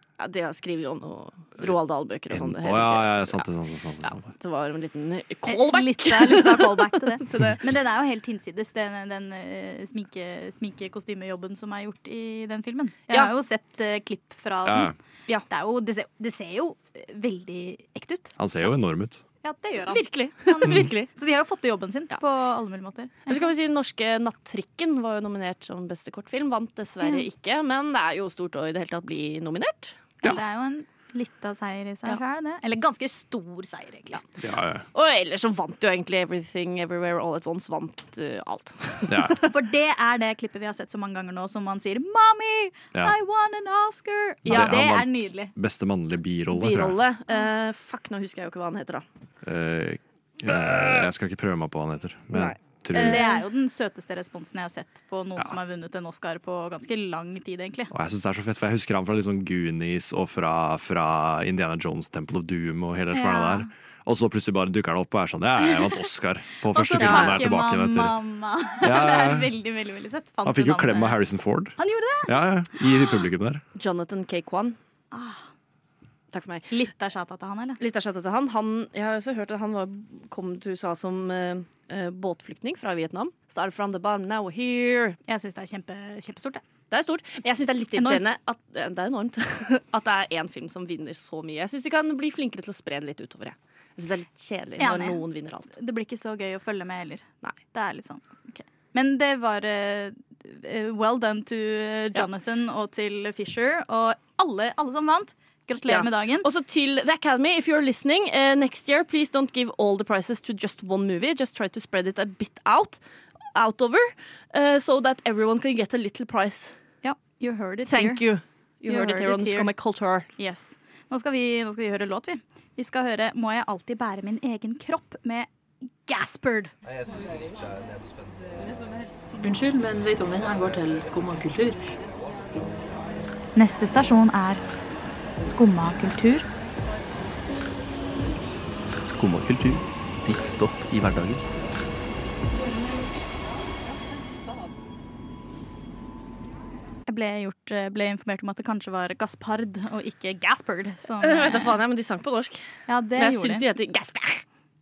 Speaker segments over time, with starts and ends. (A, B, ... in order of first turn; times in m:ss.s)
0:00.2-0:03.5 A
0:02.3-0:04.3 B
0:04.0-0:07.6 A
0:05.5-0:14.9 C
0:14.6-0:14.9 B
0:15.5-0:18.3 C
0:18.4-0:19.2 B
0:19.4-0:23.5 C
0:19.9-0:21.1 A
0:23.3-0:30.0 A
0:30.2-0:34.2 C
0:34.4-0:34.8 B
0:34.9-0:39.4 A
0:39.1-0:39.4 B
0:39.4-0:45.5 C
0:44.5-0:44.7 A
0:44.5-0:47.0 B
0:46.5-0:49.0 A
0:49.4-0:53.3 B
0:52.3-0:53.4 A
0:52.9-0:57.9 C
0:57.9-1:08.2 B
1:03.1-1:03.7 C
1:06.7-1:11.2 C
1:06.9-1:07.4 A
1:08.8-1:09.5 B
1:10.4-1:13.6 B
1:11.8-1:12.9 C
1:13.8-1:14.8 A
1:15.1-1:15.4 C
1:16.3-1:16.7 A
1:16.7-1:17.8 C
1:17.8-1:25.2 A
1:25.3-1:26.6 C
1:26.9-1:35.7 A
1:28.0-1:28.3 C
1:34.8-1:46.5 C
1:45.9-1:53.0 A
1:53.5-1:56.8 A
1:57.0-1:58.2 C
1:57.9-2:00.3 A
1:58.9-1:59.7 C
2:00.4-2:05.5 C
2:06.0-2:06.7 C
2:09.4-2:11.8 D
2:13.5-2:14.6 C
2:15.4-2:16.4 C
2:19.0-2:21.4 E
2:27.0-2:31.8 C
2:31.2-2:32.6 A
2:32.9-2:33.6 C
2:33.2-2:34.4 A